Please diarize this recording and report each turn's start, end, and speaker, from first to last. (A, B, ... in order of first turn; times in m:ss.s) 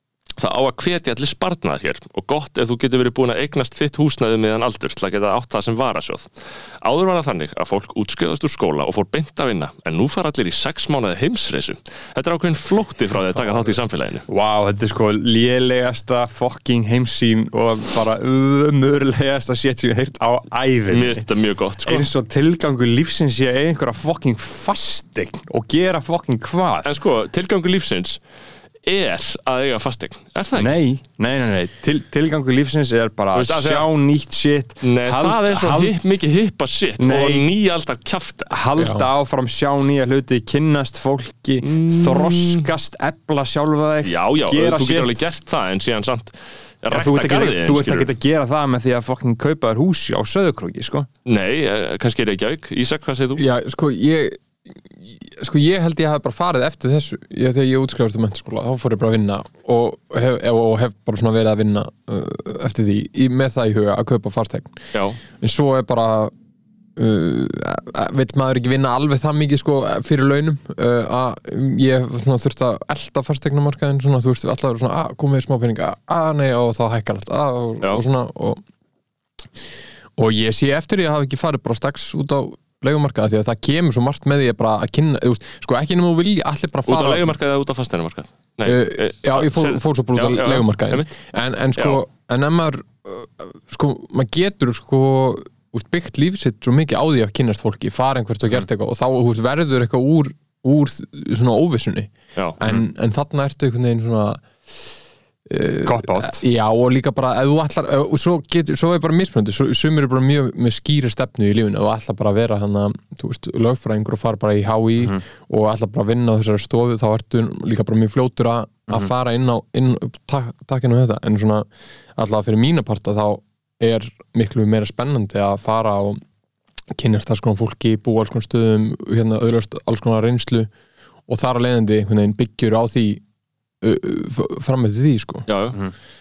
0:00.4-0:06.3 A
0:06.8-0:14.2 A
0:14.3-0:21.2 B
0:20.9-0:22.1 A
0:21.8-0:26.9 B
0:26.8-0:28.2 A
0:28.8-0:30.7 A
0:30.6-0:36.0 B
0:33.3-0:33.9 A
0:34.8-0:38.5 A
0:37.0-0:37.5 B
0:38.5-0:45.2 B
0:38.8-0:39.1 C
0:41.6-0:42.7 A
0:44.0-0:48.1 A
0:46.9-0:51.1 B
0:51.2-0:53.4 A
0:53.4-1:06.3 C
1:04.9-1:05.2 A
1:07.0-1:18.6 C
1:20.2-1:27.3 C
1:26.9-1:31.1 A
1:28.6-1:44.9 C
1:45.4-2:06.2 C
1:45.8-1:46.4 B
2:06.9-2:10.7 C
2:11.3-2:13.2 C
2:13.8-2:15.5 C
2:15.5-2:15.8 A